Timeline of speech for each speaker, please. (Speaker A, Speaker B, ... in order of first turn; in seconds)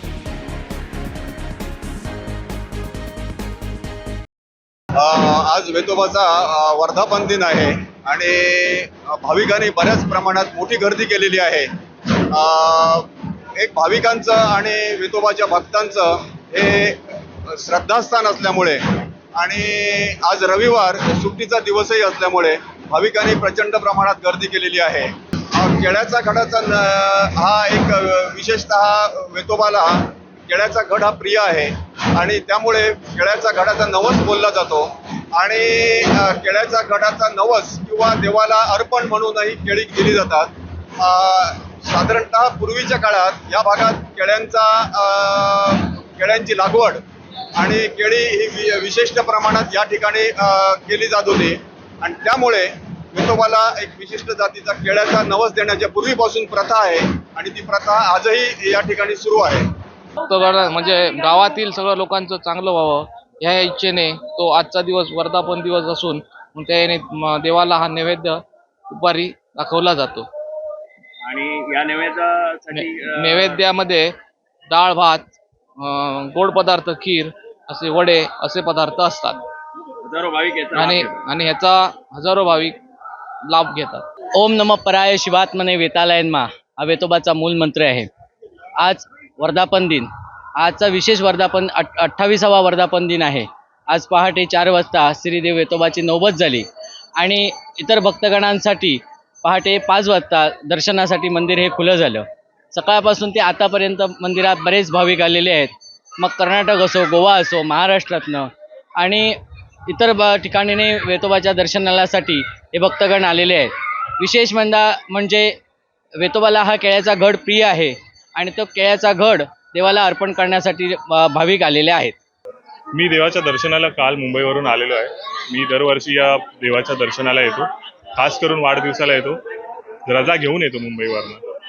Speaker A: 5.0-47.0, 47.6-59.7
Speaker B: 60.2-70.3, 72.7-74.2, 74.7-79.4, 80.7-82.8, 83.5-84.0
Speaker C: 71.3-73.5, 80.0-81.1
Speaker D: 84.3-88.1, 88.8-96.7, 97.2-109.4, 109.9-115.5, 116.2-122.2
Speaker E: 122.9-129.4, 130.1-131.4